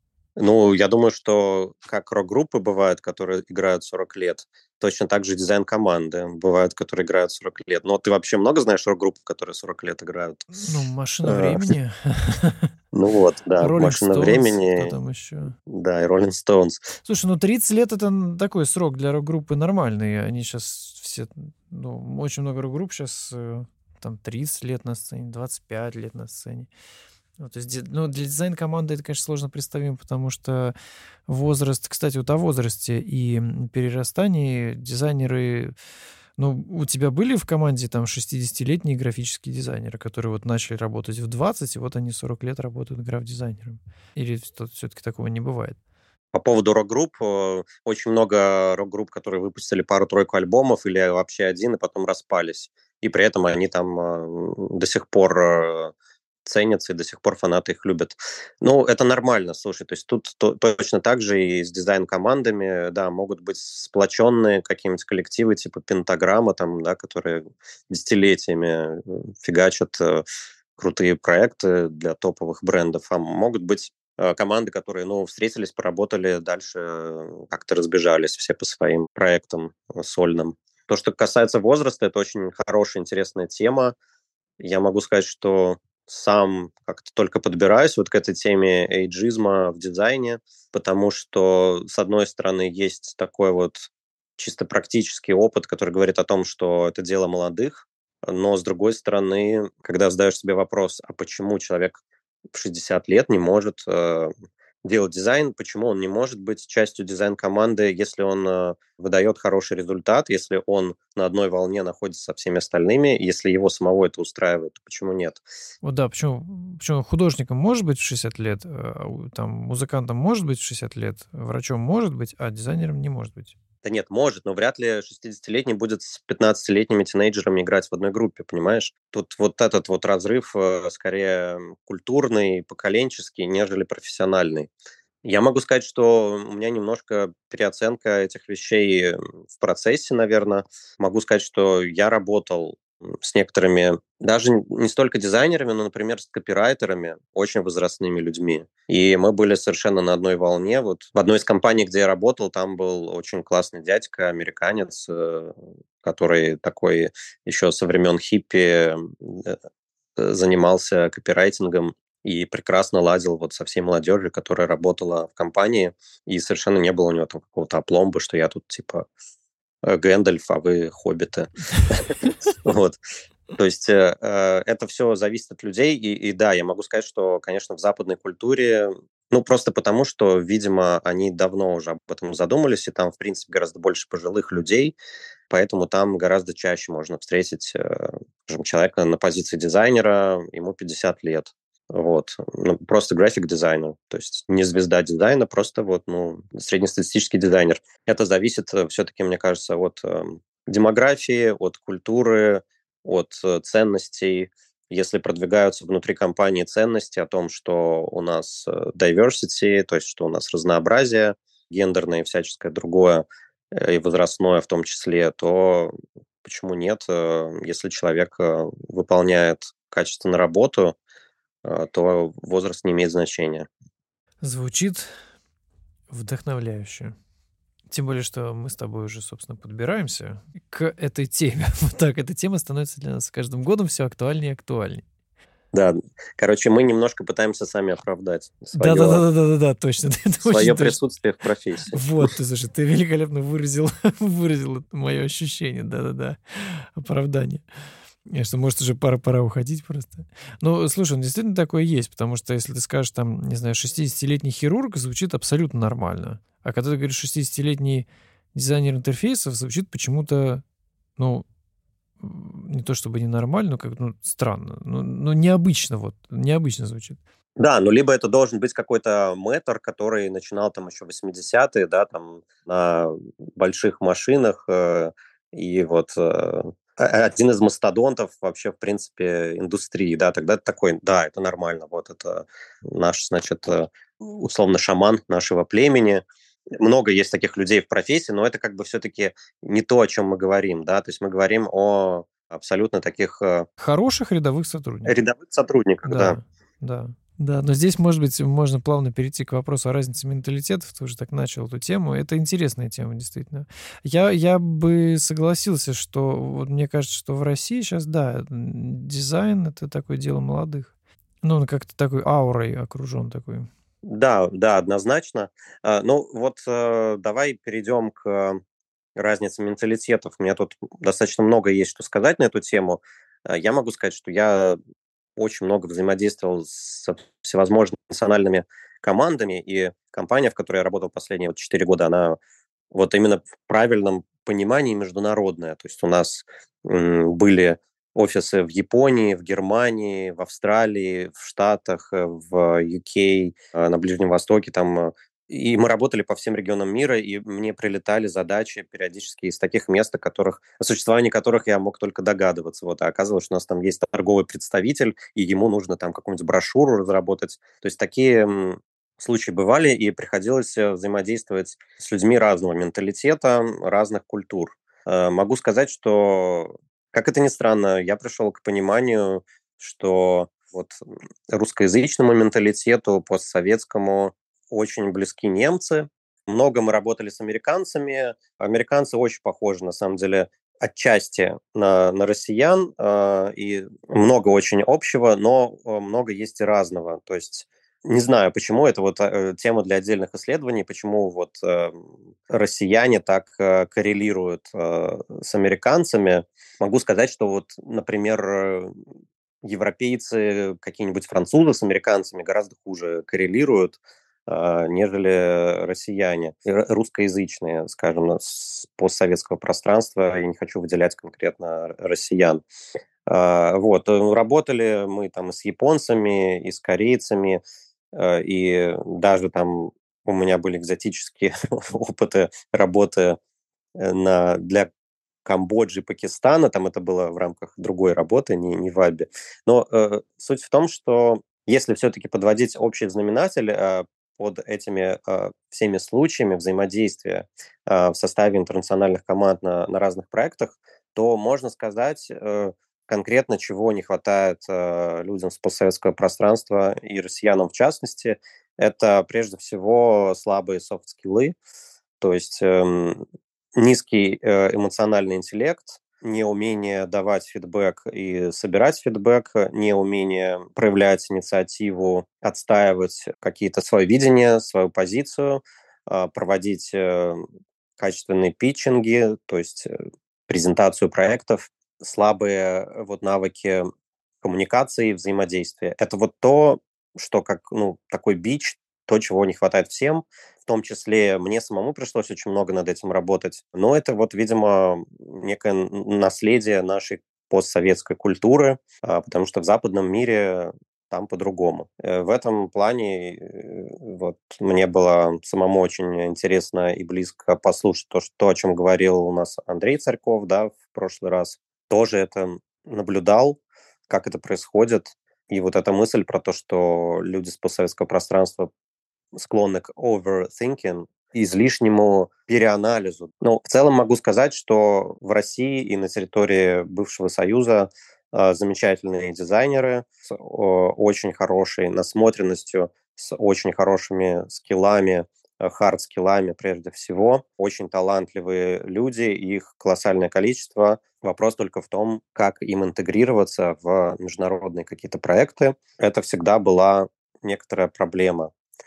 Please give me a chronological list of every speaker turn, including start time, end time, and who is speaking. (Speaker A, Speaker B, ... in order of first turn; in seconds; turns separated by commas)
Speaker A: 0.4-10.5, Speaker B: 10.5-12.7, Speaker A: 11.2-11.7, Speaker A: 12.9-14.9, Speaker B: 13.6-15.6, Speaker A: 15.7-16.9, Speaker B: 17.1-26.7, Speaker B: 27.4-30.7, Speaker B: 31.3-35.7, Speaker B: 36.4-45.8, Speaker A: 46.3-55.9, Speaker A: 56.4-70.2, Speaker A: 70.8-83.9, Speaker A: 84.6-102.0, Speaker A: 102.5-104.3, Speaker A: 104.8-115.4, Speaker B: 115.8-123.5, Speaker A: 123.8-134.7, Speaker A: 135.2-159.6, Speaker A: 160.2-169.1, Speaker A: 169.8-173.0, Speaker A: 173.6-184.9, Speaker A: 185.5-215.9, Speaker A: 216.4-220.9, Speaker A: 221.6-223.7, Speaker B: 224.4-225.1, Speaker B: 226.1-227.1, Speaker B: 227.9-235.0, Speaker A: 235.7-239.2, Speaker B: 238.7-241.0, Speaker A: 240.4-242.0, Speaker B: 241.9-247.6, Speaker B: 248.2-260.6, Speaker B: 261.2-261.4, Speaker B: 262.2-267.2, Speaker A: 267.6-293.7, Speaker B: 293.8-295.2, Speaker A: 295.1-296.4, Speaker B: 296.0-313.7, Speaker A: 314.0-318.6, Speaker A: 319.1-324.8, Speaker A: 325.4-332.4, Speaker A: 332.9-398.9, Speaker A: 399.6-412.6, Speaker A: 413.2-417.6, Speaker A: 418.1-423.4, Speaker A: 424.0-424.9, Speaker A: 425.4-451.5, Speaker A: 452.2-453.2, Speaker A: 453.8-467.4, Speaker A: 468.0-469.9, Speaker A: 470.5-473.9, Speaker A: 474.4-508.7, Speaker A: 509.3-538.5